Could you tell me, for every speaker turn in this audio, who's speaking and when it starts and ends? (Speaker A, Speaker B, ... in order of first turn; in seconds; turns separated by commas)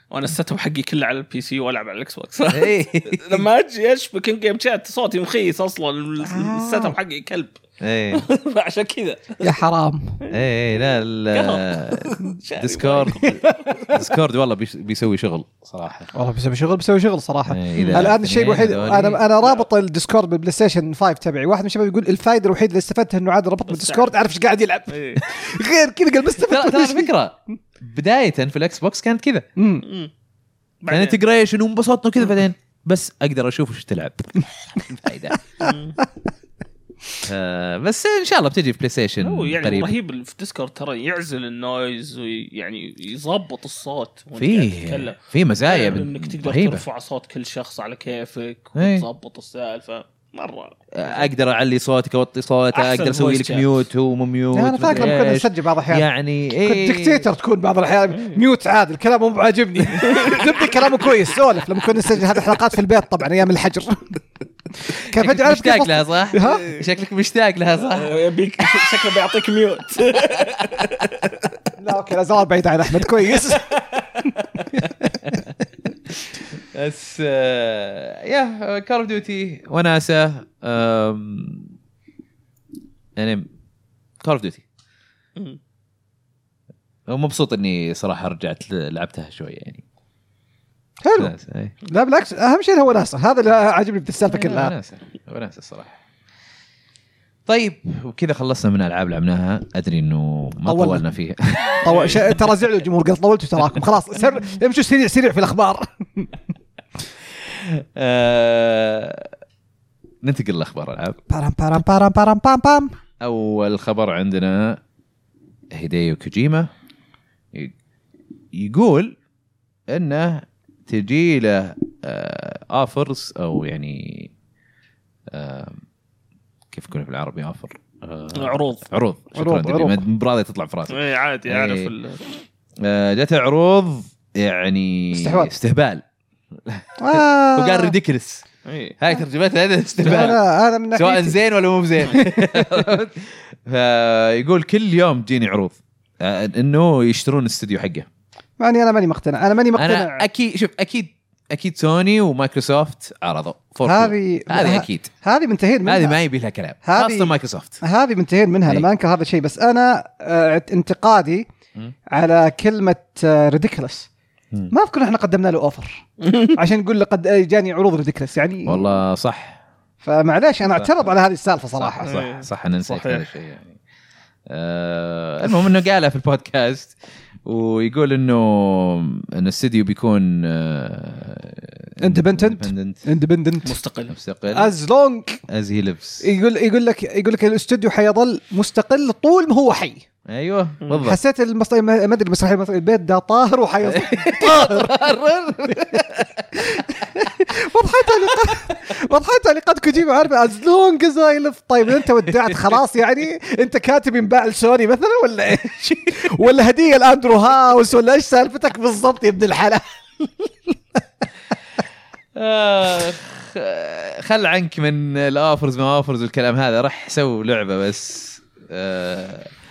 Speaker A: 0.1-7.5, Speaker B: 2.5-3.4, Speaker C: 6.3-6.9, Speaker B: 7.8-8.2, Speaker A: 8.1-9.5, Speaker C: 9.4-10.2, Speaker B: 10.3-16.1, Speaker A: 11.3-13.9, Speaker C: 16.1-27.1, Speaker B: 17.5-19.2, Speaker A: 17.7-18.1, Speaker A: 19.4-19.6, Speaker A: 23.7-24.1, Speaker A: 24.9-25.2, Speaker B: 26.4-29.4, Speaker C: 29.6-29.8, Speaker A: 29.8-30.1, Speaker A: 30.8-31.2, Speaker B: 30.9-35.4, Speaker A: 35.6-36.0, Speaker B: 37.2-39.9, Speaker A: 39.2-51.2, Speaker B: 44.4-46.8, Speaker B: 48.8-49.0, Speaker B: 50.9-57.3, Speaker A: 52.7-53.8, Speaker C: 54.5-64.2, Speaker A: 60.0-61.1, Speaker C: 64.8-66.7, Speaker B: 65.0-68.1, Speaker A: 67.9-71.5, Speaker B: 70.6-70.9, Speaker C: 71.8-74.3, Speaker B: 74.6-75.5, Speaker B: 76.6-81.7, Speaker B: 83.2-83.5, Speaker B: 84.2-84.6, Speaker B: 87.1-89.8, Speaker C: 91.0-91.3, Speaker B: 91.1-91.7, Speaker C: 91.8-94.7, Speaker B: 94.3-96.0, Speaker B: 97.5-101.8, Speaker C: 100.7-101.0, Speaker C: 101.7-106.3, Speaker A: 101.9-102.3, Speaker B: 107.4-109.3, Speaker B: 110.2-111.2, Speaker C: 111.3-112.9, Speaker B: 113.2-114.8, Speaker B: 115.7-116.7, Speaker B: 118.5-119.2, Speaker B: 119.9-124.3, Speaker B: 125.3-125.8, Speaker B: 126.7-131.9, Speaker A: 128.3-128.8, Speaker C: 129.3-130.0, Speaker A: 130.9-132.2, Speaker B: 132.8-138.4, Speaker C: 135.1-135.5, Speaker C: 137.0-137.9, Speaker A: 138.6-139.0, Speaker B: 139.0-140.4, Speaker C: 140.0-141.4, Speaker B: 140.9-148.1, Speaker C: 142.1-142.8, Speaker C: 148.6-150.2, Speaker B: 149.7-155.1, Speaker C: 153.8-156.2, Speaker B: 155.8-157.8, Speaker C: 156.8-157.3, Speaker C: 157.8-161.4, Speaker C: 162.1-164.1, Speaker C: 164.7-168.8, Speaker A: 166.2-166.6, Speaker B: 168.7-169.6, Speaker C: 170.0-172.2, Speaker B: 170.7-171.1, Speaker B: 171.8-173.8, Speaker A: 172.0-173.3, Speaker B: 174.5-183.0, Speaker C: 182.0-183.7, Speaker A: 183.6-184.1, Speaker B: 184.1-184.7, Speaker C: 184.5-185.4, Speaker B: 185.5-186.2, Speaker C: 186.2-190.0, Speaker B: 190.3-191.2, Speaker C: 191.0-195.1, Speaker B: 193.8-197.2, Speaker C: 196.6-211.0, Speaker B: 198.3-198.7, Speaker B: 212.3-219.5